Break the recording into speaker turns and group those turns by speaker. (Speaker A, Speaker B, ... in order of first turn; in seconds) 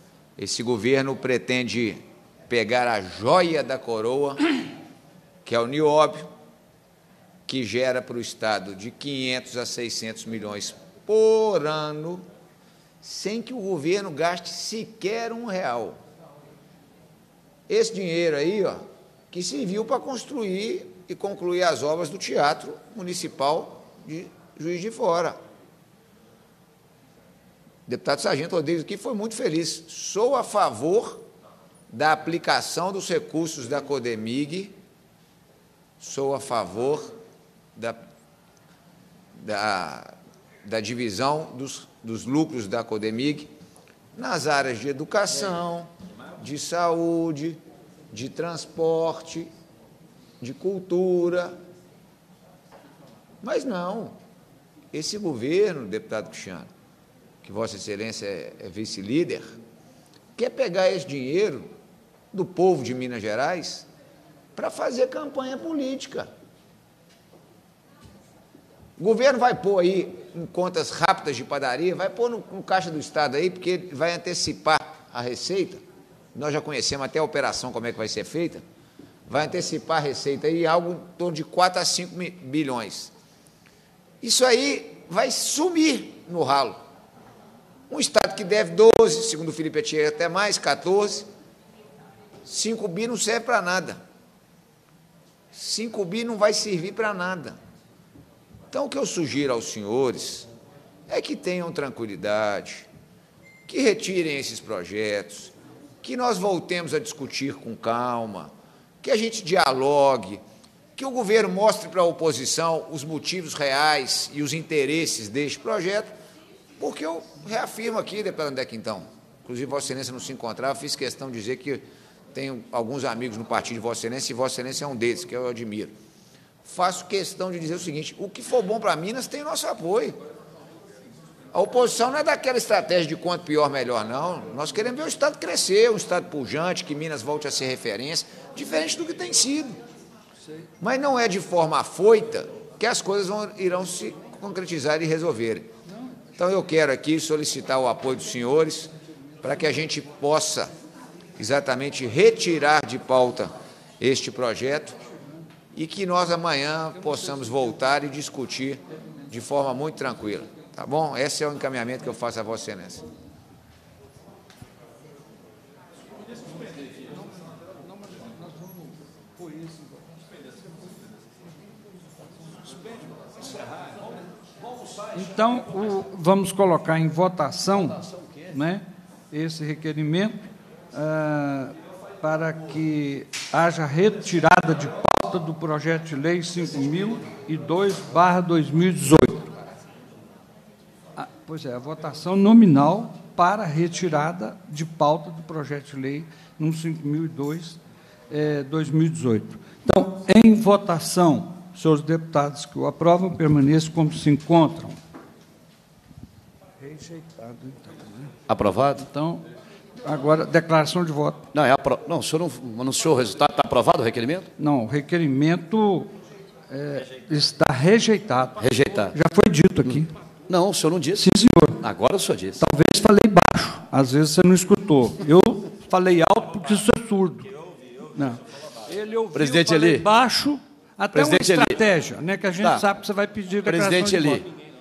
Speaker A: 0.4-4.5, 5.5-6.3, 7.5-12.3, 13.0-16.0, 17.7-25.4, 27.9-31.2, 31.9-34.8, 36.0-37.1, 39.4-40.1, 40.6-43.5, 44.1-47.6, 48.1-49.5, 50.4-51.6, 53.4-54.2, 54.9-56.7, 57.4-59.6, 60.4-61.7, 62.3-63.9, 64.6-66.3, 69.0-75.8, 76.3-78.6, 79.3-83.1, 84.2-86.8, 87.9-91.3, 92.5-94.0, 95.5-97.6, 98.7-100.5, 101.1-102.9, 103.7-110.4, 111.0-116.1, 116.8-121.8, 122.3-125.9, 126.6-130.2, 131.5-139.8, 140.8-145.7, 146.4-148.9, 149.4-150.7, 151.4-155.0, 155.7-163.0
Speaker B: 175.2-189.5, 191.2-197.8, 198.3-205.0, 206.8-208.3, 209.0-209.4, 210.1-211.5, 214.6-216.1, 216.7-218.6, 219.1-220.1, 221.2-221.8, 222.6-227.5, 228.1-234.5
Speaker C: 178.0-178.5, 208.5-209.1, 211.5-214.5, 218.6-219.2, 219.8-221.3, 221.8-222.6, 229.3-230.1, 231.1-231.8, 232.6-232.8, 233.7-234.5